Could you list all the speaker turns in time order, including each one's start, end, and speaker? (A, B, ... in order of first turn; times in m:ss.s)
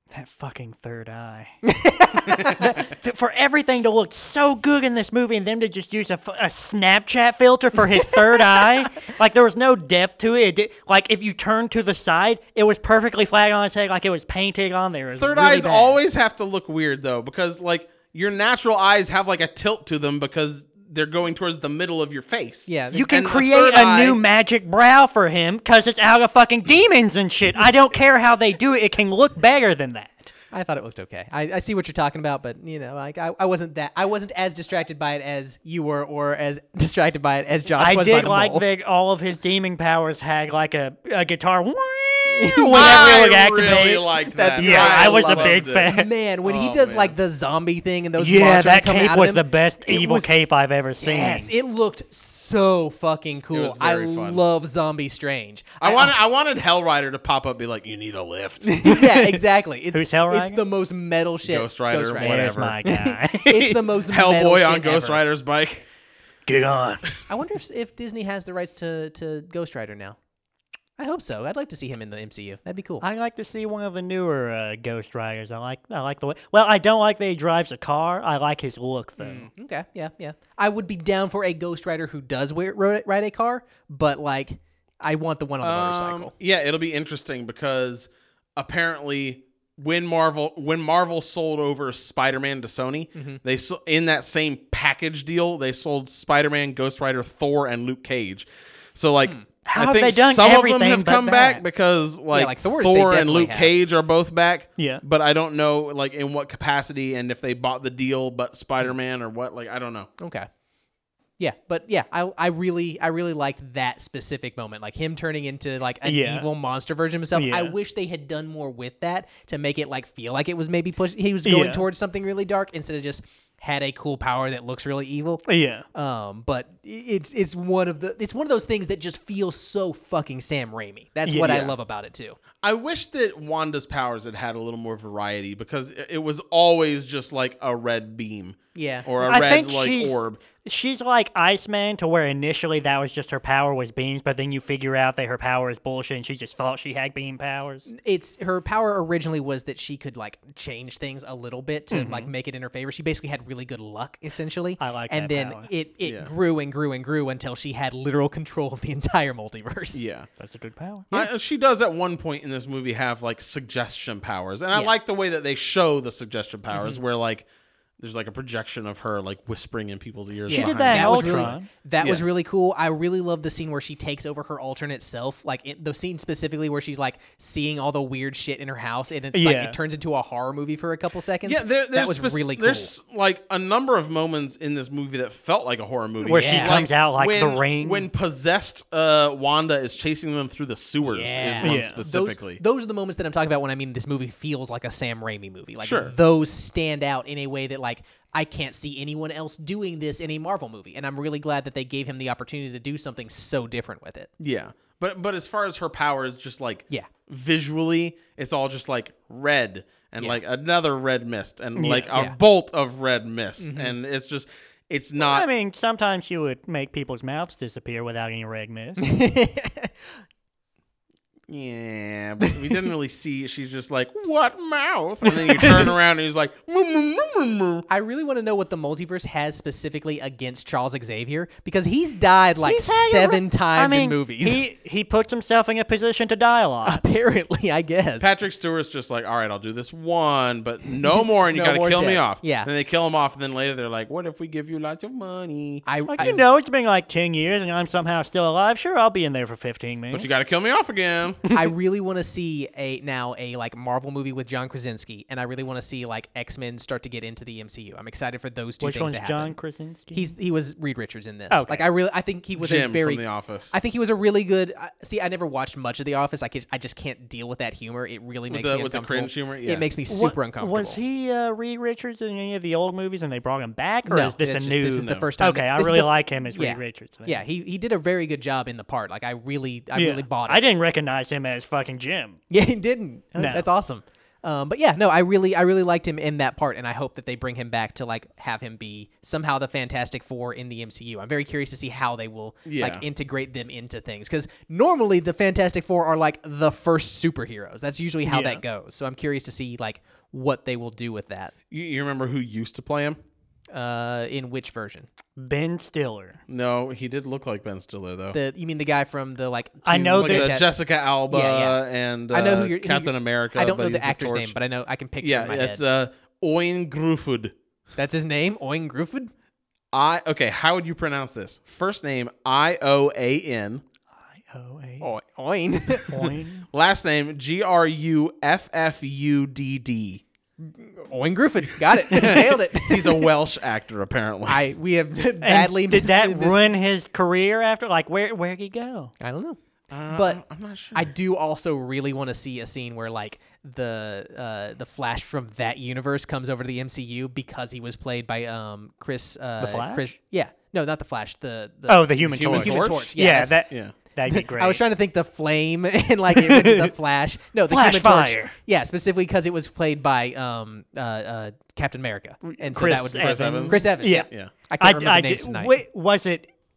0:00.1-0:01.6 A
0:01.6-0:02.7 B
0:02.4-0:02.7 C
0:02.4-0:15.8 A
0:07.9-0:08.9 B
0:15.2-0:24.2 C
0:15.4-0:16.0 B
0:22.7-0:23.2 B
0:22.9-0:30.3 A
0:30.5-0:38.7 B
0:37.8-0:44.0 A
0:42.3-0:56.1 B
0:42.7-0:45.9 C
0:44.6-0:46.1 A
0:46.4-0:47.2 C
0:48.2-0:51.5 A
0:53.5-0:54.4 C
0:55.8-0:58.8 C
0:58.7-1:05.2 B
0:58.8-1:00.6 A
1:01.4-1:02.8 C
1:02.2-1:03.8 A
1:04.1-1:05.9 C
1:06.5-1:07.0 A
1:07.3-1:10.2 B
1:11.0-1:13.0 B
1:13.0-1:19.5 A
1:19.2-1:26.3 B
1:25.6-1:50.1 C
1:33.2-1:33.4 B
1:39.7-1:41.6 A
1:42.3-1:43.7 B
1:44.8-1:45.0 A
1:50.2-1:50.5 B
1:51.4-2:12.4 B
1:56.0-1:56.5 A
1:57.3-1:57.8 A
2:01.4-2:01.9 A
2:05.5-2:05.8 A
2:11.3-2:11.6 A
2:11.4-2:11.7 C
2:12.6-2:20.4 C
2:18.7-2:19.4 B
2:19.3-2:27.9 A
2:27.9-2:40.0 B
2:31.9-2:32.3 A
2:34.8-2:35.7 A
2:36.0-2:36.3 C
2:39.9-2:40.3 C
2:40.4-2:41.1 A
2:41.1-2:47.5 C
2:46.7-2:47.0 B
2:48.0-2:52.2 C
2:50.5-2:51.7 A
2:50.5-3:02.9 B
2:59.3-2:59.8 A
3:01.4-3:12.6 C
3:06.2-3:08.1 A
3:06.3-3:06.8 B
3:11.0-3:24.3 B
3:11.6-3:12.0 A
3:15.8-3:16.1 C
3:24.4-3:35.5 C
3:31.8-3:32.1 A
3:32.1-3:32.4 B
3:33.6-3:34.0 B
3:35.2-3:39.2 A
3:39.0-3:39.9 B
3:41.5-3:47.9 C
3:45.5-3:45.9 B
3:47.9-3:54.6 B
3:52.6-3:57.0 A
3:56.8-3:58.3 B
3:58.2-4:06.4 C
4:01.0-4:02.7 B
4:05.9-4:06.4 B
4:06.1-4:10.3 A
4:10.1-4:11.4 C
4:11.5-4:19.6 B
4:18.8-4:20.3 A
4:20.1-4:31.0 B
4:21.5-4:21.9 A
4:22.6-4:23.8 C
4:28.5-4:29.9 C
4:30.1-4:37.4 A
4:34.1-4:40.6 B
4:35.0-4:35.3 C
4:39.9-4:42.4 A
4:42.5-5:01.5 B
4:43.4-4:43.7 A
4:52.6-4:53.0 C
4:58.3-4:58.6 A
5:01.7-5:03.2 C
5:03.7-5:05.1 B
5:05.4-5:06.4 A
5:06.5-5:08.4 C
5:08.3-5:10.7 B
5:09.8-5:10.6 A
5:10.2-5:14.6 C
5:11.3-5:15.8 B
5:15.2-5:17.5 C
5:18.0-5:19.3 B
5:19.9-5:23.8 C
5:24.3-5:25.1 A
5:25.0-5:26.4 B
5:26.1-5:26.7 A
5:26.7-5:30.2 C
5:30.6-5:33.3 B
5:31.9-5:34.6 C
5:34.5-5:36.6 B
5:35.4-5:39.1 A
5:39.2-5:39.6 B
5:39.9-5:41.1 C
5:40.1-5:40.4 B
5:40.9-5:53.6 B
5:49.6-5:50.2 A
5:51.9-5:54.8 A
5:52.2-5:53.1 C
5:53.7-5:53.9 C
5:54.3-6:05.8 B
5:56.3-5:56.9 A
5:57.7-5:58.6 A
6:02.4-6:04.3 A
6:03.2-6:04.5 C
6:04.8-6:06.5 A